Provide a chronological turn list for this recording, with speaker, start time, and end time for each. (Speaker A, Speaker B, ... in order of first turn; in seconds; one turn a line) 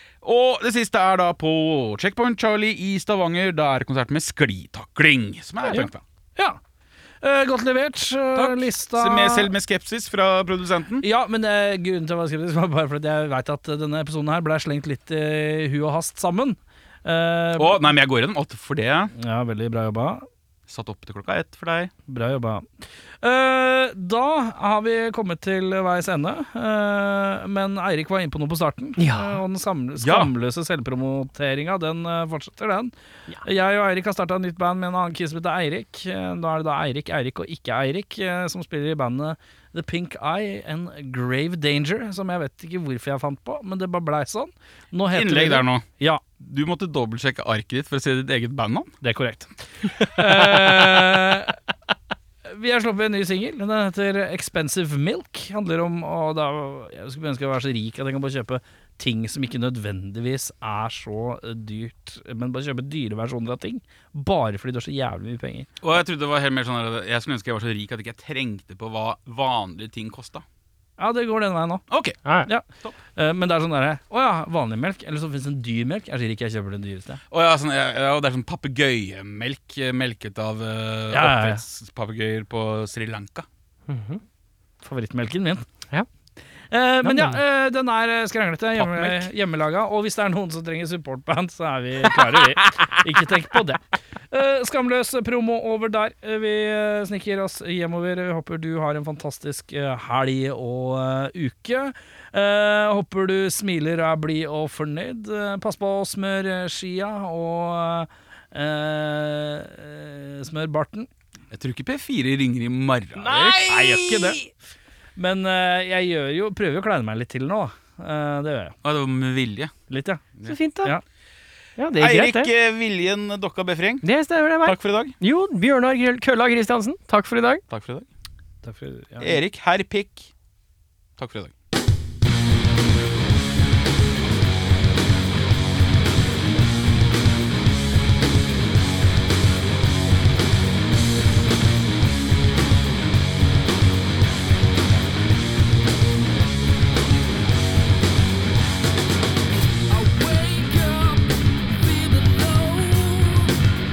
Speaker A: 0.2-6.0
Speaker B: 5.7-6.6
Speaker B: 7.2-9.5
Speaker A: 8.3-11.1
Speaker B: 11.0-17.8
Speaker A: 17.6-19.1
Speaker B: 19.1-20.3
Speaker A: 20.7-21.9
Speaker B: 22.1-22.6
Speaker B: 23.2-32.9
Speaker C: 29.0-29.4
Speaker A: 30.0-30.3
Speaker B: 33.4-46.2
Speaker A: 45.1-45.8
Speaker A: 46.4-48.9
Speaker B: 49.0-51.6
Speaker B: 52.5-65.7
Speaker A: 65.8-70.5
Speaker B: 71.0-71.8
Speaker A: 71.9-72.2
Speaker B: 72.5-77.2
Speaker A: 77.3-83.5
Speaker B: 81.1-81.6
Speaker C: 83.9-84.2
Speaker B: 84.8-85.7
Speaker B: 86.7-111.1
Speaker C: 87.0-87.4
Speaker A: 88.7-89.3
Speaker A: 111.5-114.3
Speaker C: 113.2-114.4
Speaker B: 113.7-114.4
Speaker B: 115.2-118.8
Speaker A: 118.8-119.7
Speaker B: 119.9-120.2
Speaker C: 120.5-120.9
Speaker C: 121.8-122.5
Speaker A: 122.0-124.0
Speaker C: 124.0-127.6
Speaker A: 124.6-125.1
Speaker A: 127.7-128.1
Speaker B: 128.6-129.4
Speaker A: 129.2-130.3
Speaker A: 131.2-131.5
Speaker B: 149.9-153.7